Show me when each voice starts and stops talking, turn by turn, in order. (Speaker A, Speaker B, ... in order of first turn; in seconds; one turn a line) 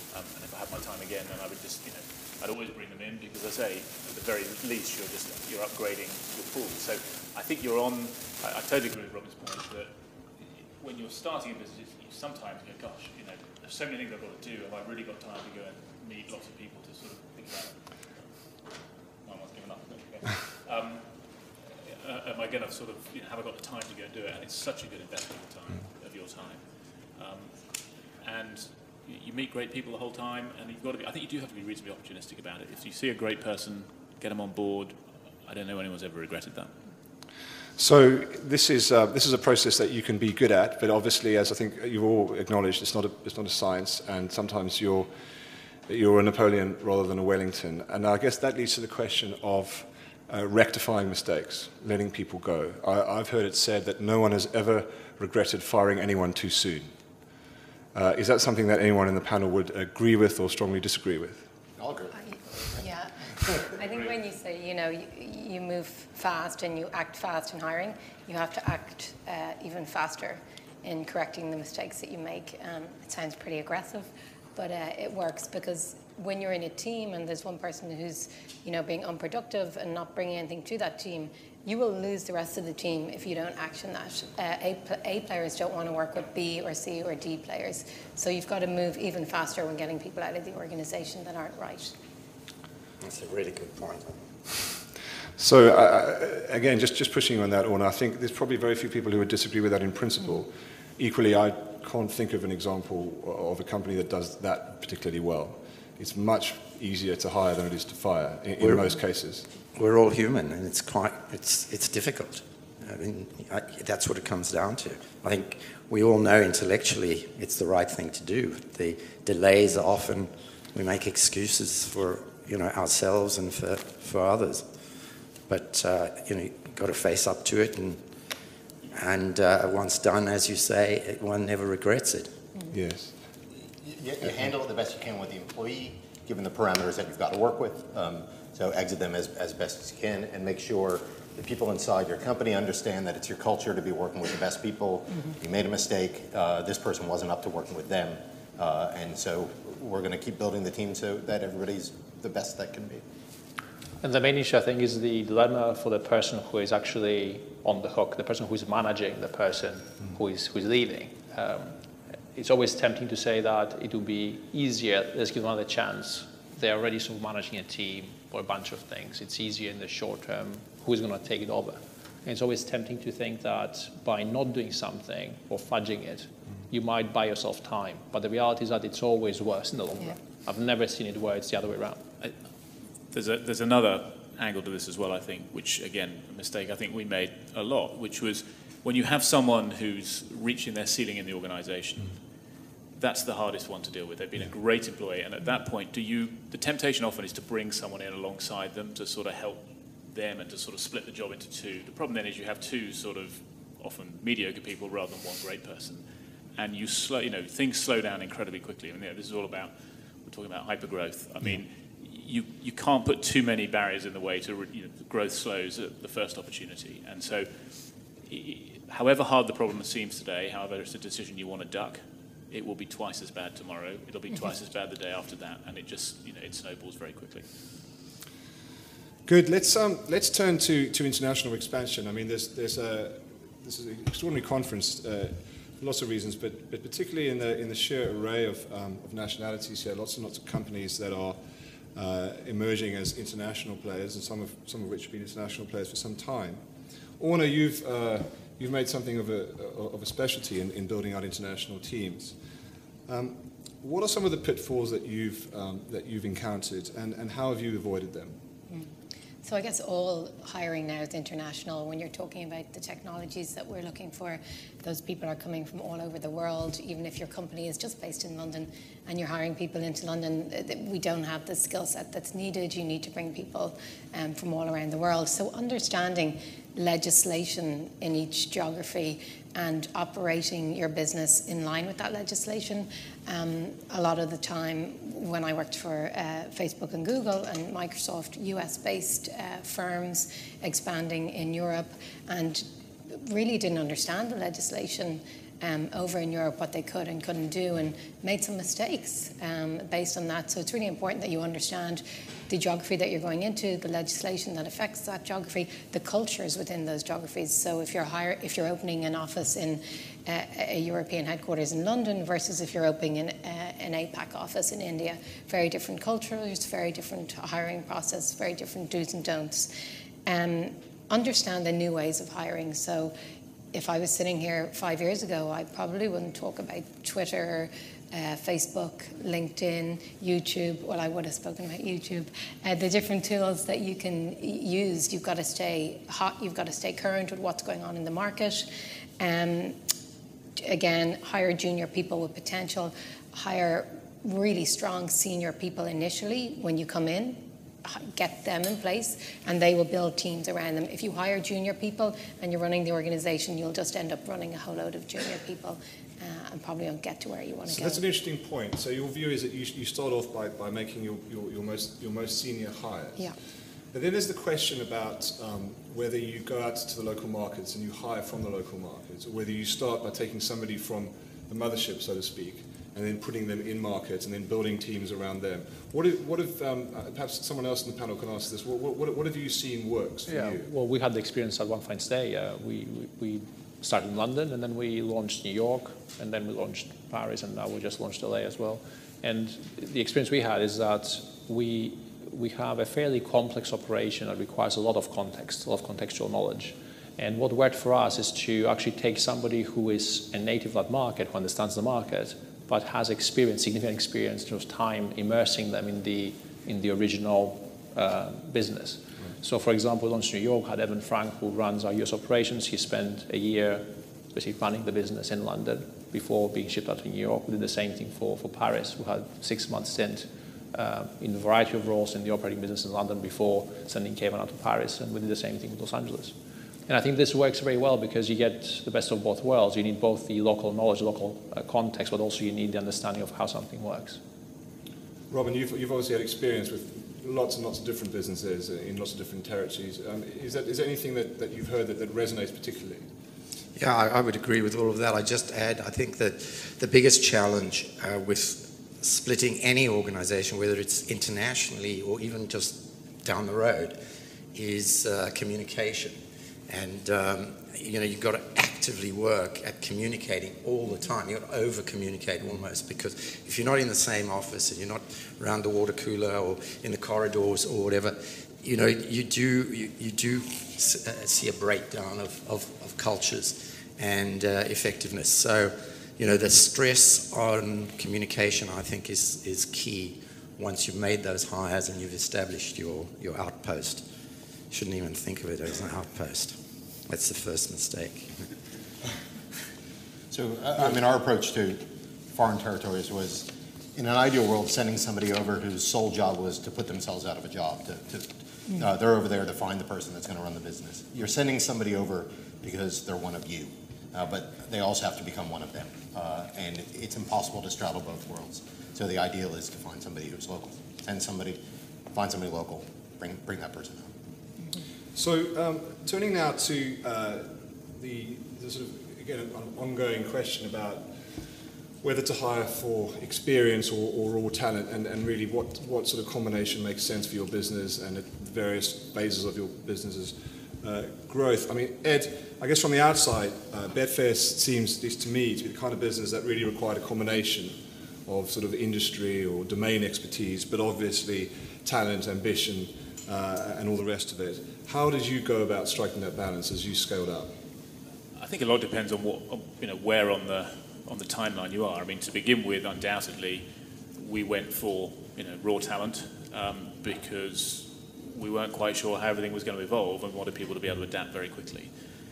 Speaker A: 0.1-9.9
Speaker A: 10.8-17.8
Speaker A: 19.2-21.1
Speaker A: 21.9-27.5
Speaker A: 28.2-36.7
Speaker B: 37.8-45.1
Speaker B: 45.9-56.9
Speaker B: 57.9-61.4
Speaker C: 61.8-62.8
Speaker D: 62.8-91.9
Speaker E: 93.0-94.2
Speaker B: 95.4-109.5
Speaker E: 108.6-108.9
Speaker E: 109.7-124.7
Speaker E: 125.5-128.0
Speaker E: 128.9-132.3
Speaker B: 132.7-133.1
Speaker C: 133.8-153.0
Speaker F: 154.0-161.8
Speaker F: 162.3-182.0
Speaker A: 183.1-192.1
Speaker A: 193.0-206.0
Speaker A: 206.6-209.7
Speaker A: 210.2-217.5
Speaker A: 218.2-227.4
Speaker B: 229.2-241.4
Speaker B: 241.9-246.6
Speaker B: 247.2-252.3
Speaker B: 253.1-258.4
Speaker D: 259.4-319.7
Speaker D: 320.2-323.1
Speaker D: 323.7-338.6
Speaker D: 339.2-339.8
Speaker D: 340.6-358.0
Speaker B: 357.7-363.2
Speaker B: 363.9-380.7
Speaker F: 380.3-426.3
Speaker F: 426.9-434.2
Speaker B: 435.3-443.0
Speaker E: 443.8-454.0
Speaker E: 454.5-456.2
Speaker E: 456.7-484.0
Speaker E: 484.7-486.6
Speaker E: 487.1-488.4
Speaker C: 490.3-511.6
Speaker C: 512.1-514.1
Speaker B: 515.1-521.1
Speaker B: 522.0-547.5
Speaker A: 548.4-553.6
Speaker A: 554.2-561.9